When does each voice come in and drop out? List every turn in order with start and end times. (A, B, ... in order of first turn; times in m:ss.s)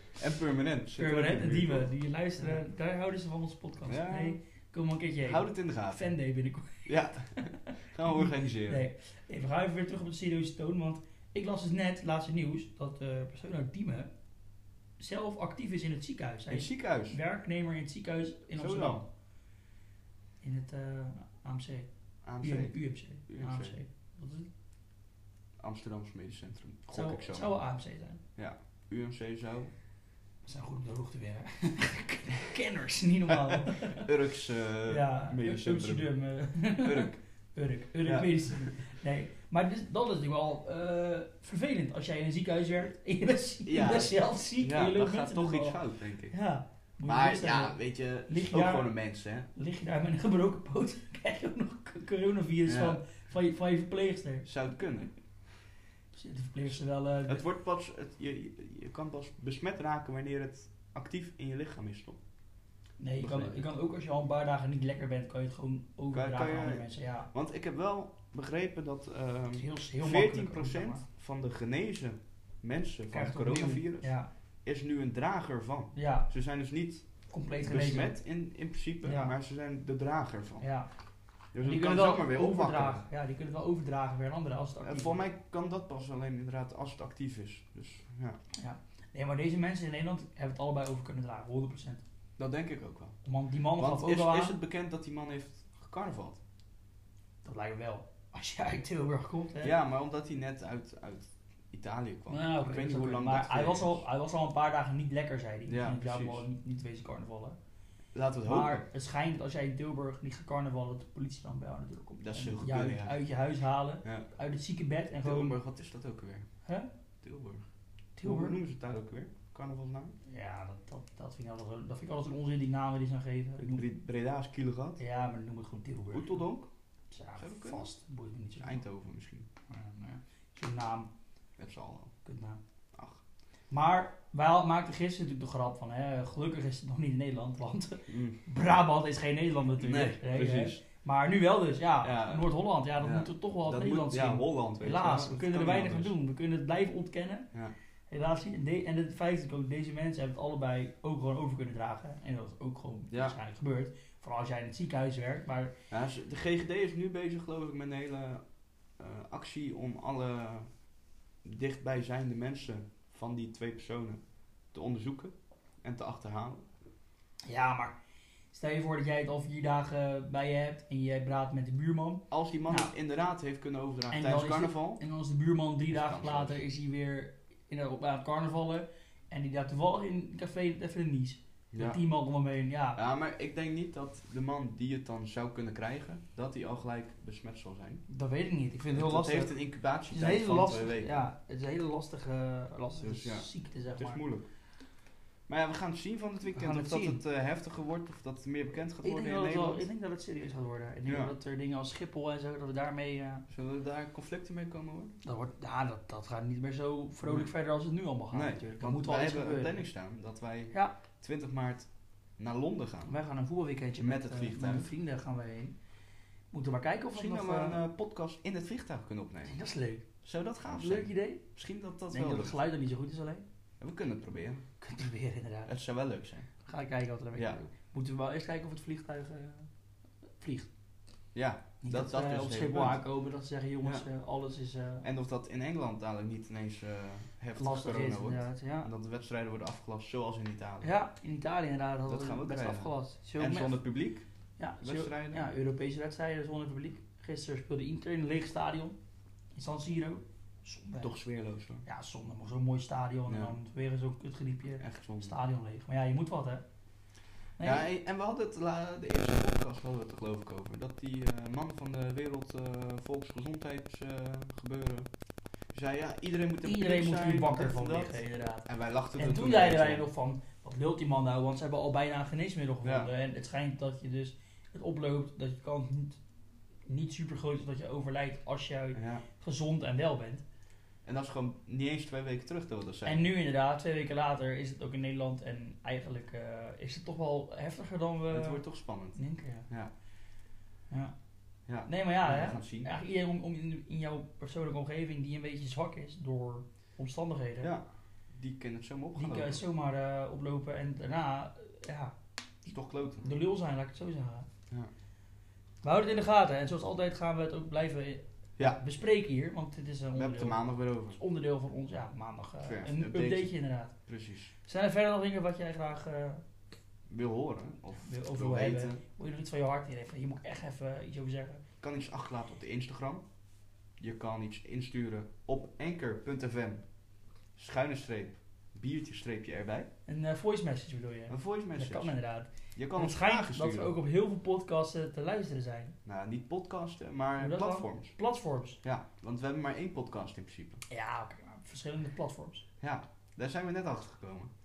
0:00.2-0:01.9 A
0:01.0-0:14.1 B
0:03.9-0:04.4 A
0:05.2-0:06.1 A
0:06.9-0:08.8 A
0:15.0-0:19.0 B
0:16.5-0:17.2 A
0:18.6-0:19.0 A
0:20.4-0:24.5 B
0:22.2-0:23.8 A
0:25.6-0:27.6 A
0:26.9-0:28.2 B
0:28.4-0:29.7 A
0:30.4-0:34.1 B
0:33.3-0:37.2 A
0:34.9-0:45.8 B
0:38.0-0:38.8 A
0:43.6-0:46.4 A
0:46.3-0:48.9 B
0:47.0-0:49.5 A
0:49.5-0:54.5 B
0:52.7-0:53.0 A
0:54.4-0:55.1 A
0:56.1-0:57.4 B
0:57.3-1:02.2 A
1:03.0-1:07.3 B
1:03.2-1:03.7 A
1:06.1-1:14.1 A
1:09.5-1:11.0 B
1:13.1-1:14.3 B
1:14.6-1:20.6 A
1:16.0-1:16.3 B
1:17.3-1:18.2 B
1:19.0-1:19.3 B
1:20.6-1:20.9 B
1:21.5-1:23.0 A
1:21.6-1:25.2 B
1:24.8-1:28.4 A
1:28.5-1:32.0 B
1:32.4-1:33.2 A
1:33.2-1:34.6 B
1:33.8-1:36.4 A
1:37.4-1:39.7 B
1:39.6-1:44.0 A
1:42.3-1:47.6 B
1:45.7-1:46.5 A
1:48.1-1:48.8 A
1:48.4-1:55.6 B
1:52.2-1:53.2 A
1:55.2-1:56.5 A
1:57.2-1:57.7 A
1:58.2-1:58.6 B
1:58.2-2:00.2 A
2:00.3-2:03.9 B
2:03.6-2:05.0 A
2:05.0-2:06.5 B
2:06.1-2:06.7 A
2:07.1-2:08.8 B
2:07.4-2:07.9 A
2:08.6-2:09.5 A
2:09.7-2:11.1 B
2:11.6-2:12.1 A
2:12.2-2:12.6 B
2:12.9-2:13.2 A
2:13.7-2:27.5 B
2:18.1-2:18.4 A
2:19.8-2:20.8 A
2:22.0-2:22.5 A
2:23.0-2:26.1 A
2:28.1-2:35.7 B
2:33.1-2:33.4 A
2:35.9-2:38.4 A
2:39.0-2:40.7 A
2:41.4-2:44.2 A
2:44.7-2:46.7 A
2:47.5-2:48.0 B
2:48.5-2:52.9 B
2:52.3-2:55.0 A
2:54.1-3:03.0 B
2:55.9-2:56.6 A
3:01.7-3:02.0 A
3:03.0-3:08.0 A
3:08.1-3:09.5 B
3:08.9-3:11.3 A
3:10.1-3:14.2 B
3:13.0-3:14.5 A
3:15.5-3:19.8 A
3:16.5-3:17.2 B
3:19.0-3:23.5 B
3:21.1-3:21.3 A
3:23.5-3:25.2 A
3:25.2-3:29.9 B
3:27.2-3:27.5 A
3:28.3-3:33.2 A
3:33.1-3:35.7 B
3:34.0-3:34.9 A
3:36.5-3:37.8 B
3:37.1-3:39.6 A
3:39.5-3:40.0 B
3:40.2-3:42.6 A
3:40.7-3:41.5 B
3:42.1-3:43.4 B
3:43.8-3:44.6 A
3:44.8-3:45.7 B
3:45.7-3:46.5 A
3:46.6-3:49.7 B
3:50.4-3:50.7 B
3:51.3-3:53.0 A
3:51.8-3:55.1 B
3:55.0-4:01.0 A
3:57.6-3:58.9 B
4:00.8-4:03.8 B
4:02.1-4:04.2 A
4:04.6-4:09.0 B
4:04.8-4:05.5 A
4:09.6-4:11.1 B
4:11.0-4:11.8 A
4:11.8-4:16.6 B
4:13.3-4:13.6 A
4:14.8-4:15.4 A
4:17.6-4:17.9 B
4:17.6-4:25.1 A
4:25.7-4:30.1 A
4:26.6-4:36.2 B
4:32.8-4:33.1 A
4:36.9-4:40.4 B
4:39.0-4:39.2 A
4:41.0-4:43.3 A
4:43.0-4:48.6 B
4:48.3-4:49.9 A
4:49.2-4:49.7 B
4:51.7-4:52.9 A
4:51.8-4:57.7 B
4:57.6-4:59.6 A
4:59.2-5:02.1 B
5:02.6-5:03.3 A
5:03.2-5:04.5 B
5:05.8-5:14.0 B
5:10.2-5:11.2 A
5:12.6-5:14.5 A
5:14.6-5:16.4 B
5:17.1-5:19.0 A
5:18.0-5:21.6 B
5:21.8-5:23.3 A
5:24.0-5:26.8 A
5:27.6-5:29.9 A
5:30.1-5:36.0 B
5:31.3-5:32.1 A
5:32.7-5:33.9 A
5:36.0-5:38.2 A
5:37.4-5:38.8 B
5:38.8-5:40.8 A
5:40.9-5:42.6 B
5:42.8-5:44.5 A